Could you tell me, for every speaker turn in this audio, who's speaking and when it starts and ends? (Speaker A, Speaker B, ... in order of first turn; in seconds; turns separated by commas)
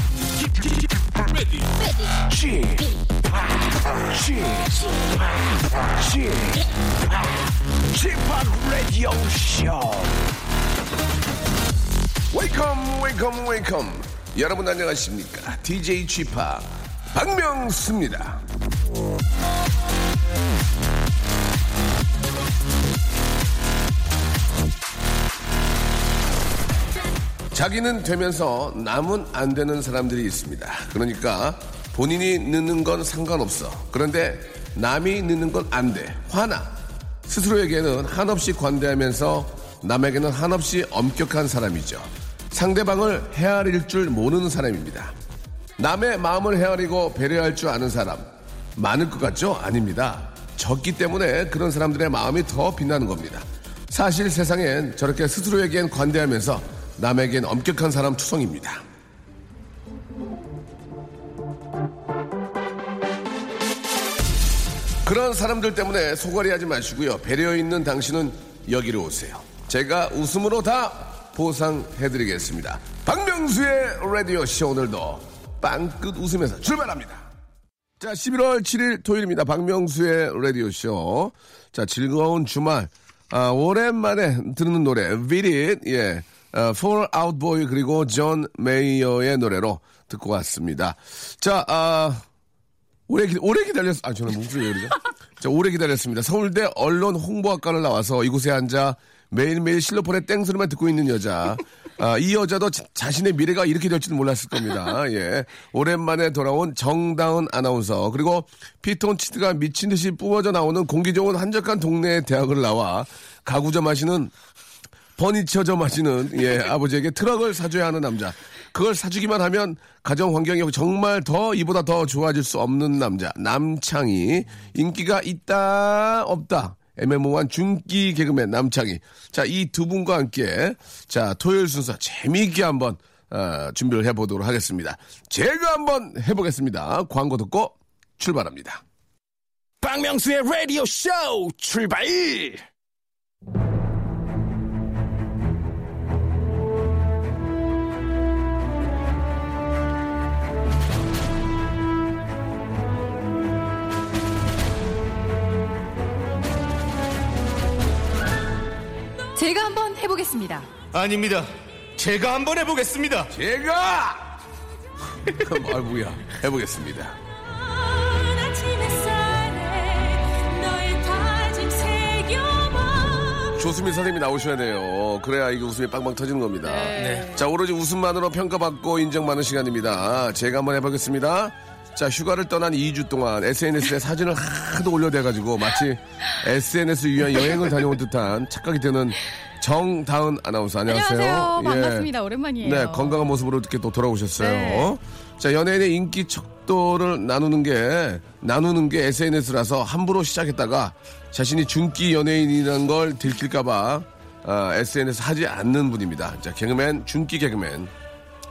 Speaker A: 0.1-10.3, Speaker A: 12.3-18.4, Speaker A: 27.5-45.1, Speaker A: 45.8-58.8, Speaker A: 65.0-77.3, Speaker A: 78.0-92.2, Speaker A: 93.1-114.3, Speaker A: 115.2-138.8, Speaker B: 139.8-142.6, Speaker C: 159.3-160.7, Speaker D: 160.9-163.3, Speaker A: 163.3-164.3, Speaker A: 165.3-167.2, Speaker C: 167.8-173.6, Speaker A: 173.5-192.1, Speaker C: 176.6-177.4, Speaker D: 177.0-177.3, Speaker C: 190.8-193.3, Speaker A: 192.6-207.9, Speaker C: 194.4-194.9